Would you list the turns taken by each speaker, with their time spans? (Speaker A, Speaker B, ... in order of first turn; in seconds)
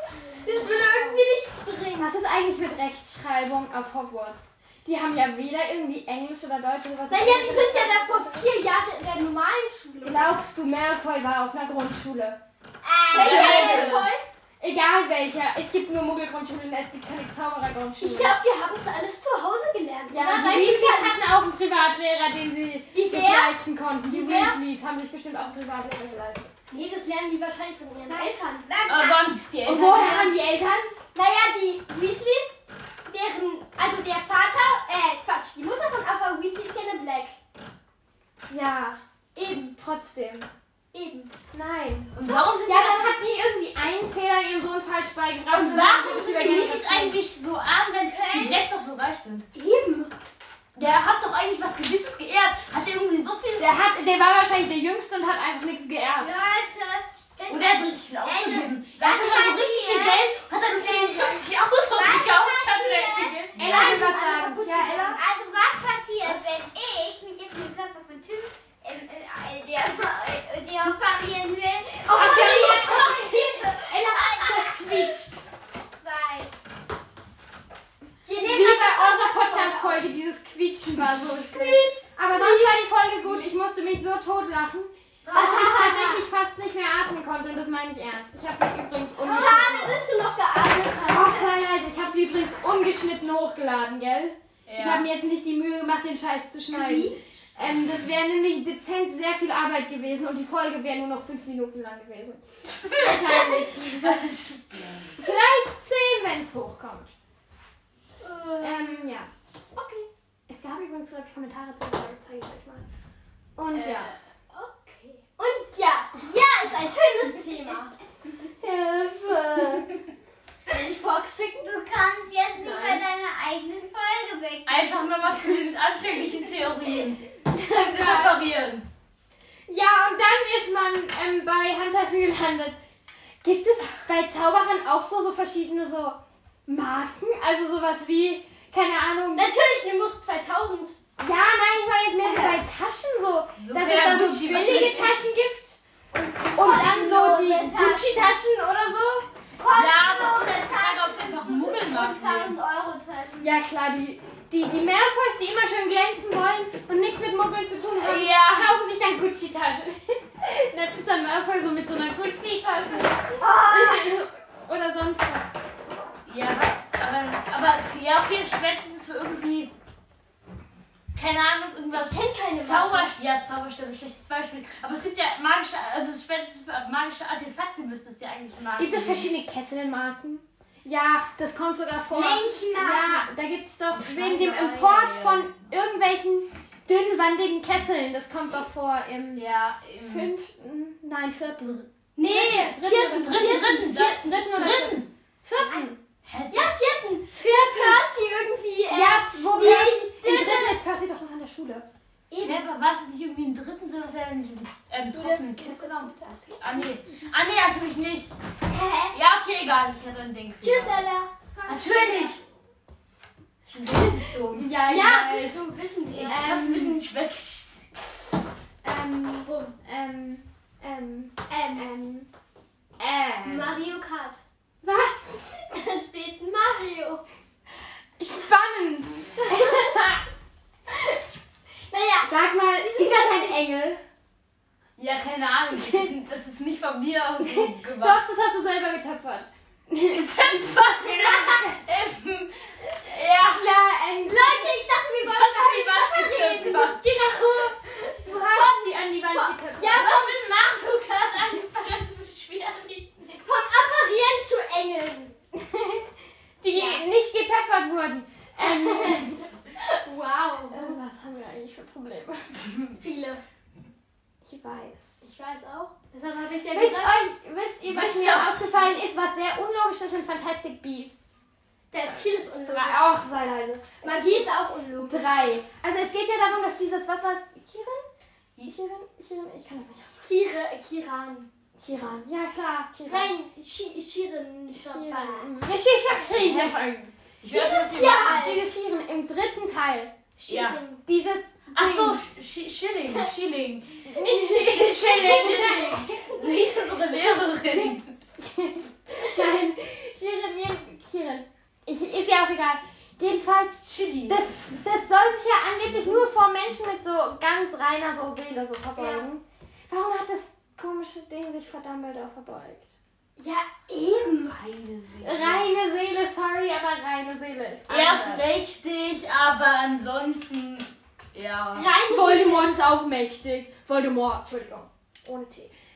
Speaker A: 0.3-2.1, 7.1-10.3, 13.1-14.2, 18.0-21.2, 22.9-23.5, 24.1-24.6, 26.7-28.7, 31.1-32.5, 33.1-37.4, 39.4-39.7, 40.9-41.3, 42.6-43.0, 49.5-50.1, 64.0-65.1, 72.0-73.3, 78.2-80.0, 81.5-83.6, 85.3-86.2, 89.2-91.5, 96.7-97.2, 108.3-108.9, 109.7-110.1, 113.7-117.9, 120.7-121.7, 139.3-140.9, 144.5-145.1, 150.0-150.7, 171.9-173.1, 192.2-193.9, 196.5-200.7, 202.3-202.6, 205.2-206.3, 208.7-209.1, 210.6-212.4, 214.7-216.5, 219.4-219.7, 221.5-221.8, 223.4-224.4, 225.7-227.2, 229.5-229.9, 231.9-233.6, 244.2-246.9, 248.2-251.2, 253.4-255.3, 256.7-257.0, 258.6-261.0, 262.9-263.4, 265.2-267.2, 271.9-273.2, 274.0-275.5, 280.2-281.5, 283.1-285.5, 287.5-288.7, 290.4-291.0, 294.3-296.3, 308.9-309.3, 313.4-314.6, 321.7-322.7
Speaker B: 0.6-1.0, 2.0-8.5, 10.0-12.4, 13.1-14.1, 14.6-18.3, 20.1-26.5, 29.6-31.0, 38.5-40.5, 41.5-42.1, 42.7-47.2, 53.6-56.3, 63.6-65.2, 72.1-75.4, 78.4-90.0, 91.1-104.2, 105.2-107.1, 108.6-109.3, 110.5-112.8, 113.6-114.1, 118.6-119.9, 122.6-123.0, 127.5-128.4, 129.7-132.8, 133.4-139.5, 141.2-145.8, 146.5-149.3, 153.4-165.5, 178.8-189.5, 190.0-196.0, 197.4-198.0, 198.9-201.8, 205.2-206.9, 214.5-215.7, 216.3-217.0, 218.8-222.3, 223.0-223.8, 224.8-225.5, 228.2-230.2, 232.2-234.0, 235.7-236.1, 237.4-240.2, 241.0-241.8, 243.2-244.7, 246.2-250.1, 255.5-256.0, 256.6-259.5, 260.7-262.5, 264.4-265.2, 266.7-271.1, 272.6-278.1, 278.6-280.3, 281.8-283.3, 284.7-287.1, 288.1-290.1, 291.0-292.2, 294.0-296.2, 297.7-303.4, 304.3-312.9, 315.2-318.5, 322.1-325.7
Speaker C: 12.8-13.9, 28.1-29.3, 48.1-48.6, 56.2-75.0, 76.0-76.5, 121.7-125.1, 142.2-142.6, 146.1-148.1, 149.6-153.5, 163.4-164.0, 182.1-183.3
Speaker D: 13.1-14.1, 28.9-30.3, 42.1-43.1, 45.5-49.5, 50.8-53.8, 57.5-64.0, 85.2-85.5, 94.7-95.0, 102.9-103.2, 103.9-105.0, 124.6-128.8, 143.6-145.2, 149.7-152.6, 158.0-158.8, 166.2-169.7, 171.1-179.3, 183.9-185.5, 189.3-190.3, 193.1-195.1, 196.2-196.7, 202.4-208.3, 209.1-211.0, 211.7-212.4, 213.7-214.7, 216.1-217.9, 235.0-238.2, 240.1-243.6, 245.2-247.2, 249.9-253.3, 267.8-268.6, 286.3-286.8, 287.4-288.3, 290.5-290.8, 291.7-298.1, 303.2-304.4, 314.4-315.6, 317.9-321.9